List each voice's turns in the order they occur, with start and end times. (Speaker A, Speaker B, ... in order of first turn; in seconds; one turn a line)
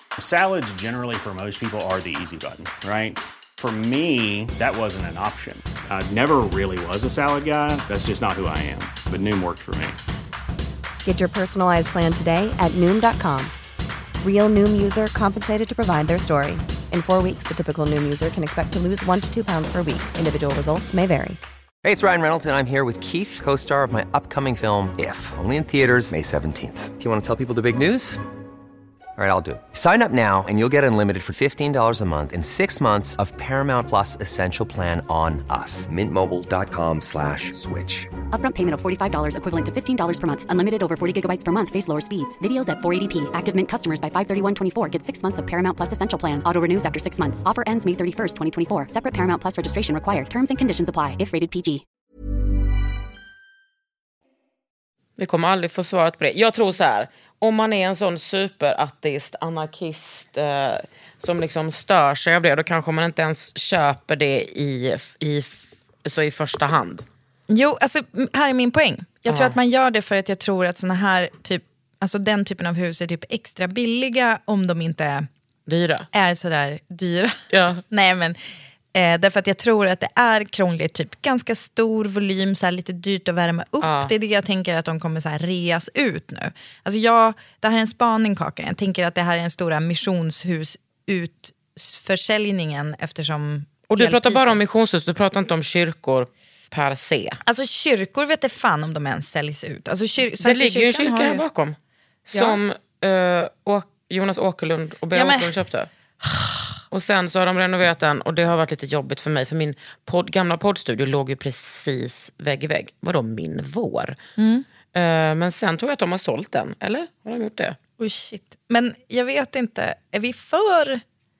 Speaker A: 0.2-10.0
Speaker B: 11.0-13.5
Speaker B: 14.2-21.4
Speaker C: 21.8-28.2
Speaker C: 29.2-38.1
Speaker D: 38.3-51.8
Speaker E: 55.2-67.0
Speaker F: 67.5-75.3
Speaker E: 69.3-69.6
Speaker E: 75.7-76.1
Speaker F: 76.1-78.4
Speaker E: 77.5-77.8
Speaker F: 78.9-94.6
Speaker E: 83.8-84.1
Speaker E: 93.9-97.4
Speaker F: 97.4-101.4
Speaker E: 100.4-105.9
Speaker F: 102.3-102.6
Speaker F: 105.1-105.5
Speaker F: 106.2-106.8
Speaker E: 106.9-114.2
Speaker F: 114.4-114.6
Speaker E: 114.9-117.8
Speaker F: 118.0-121.0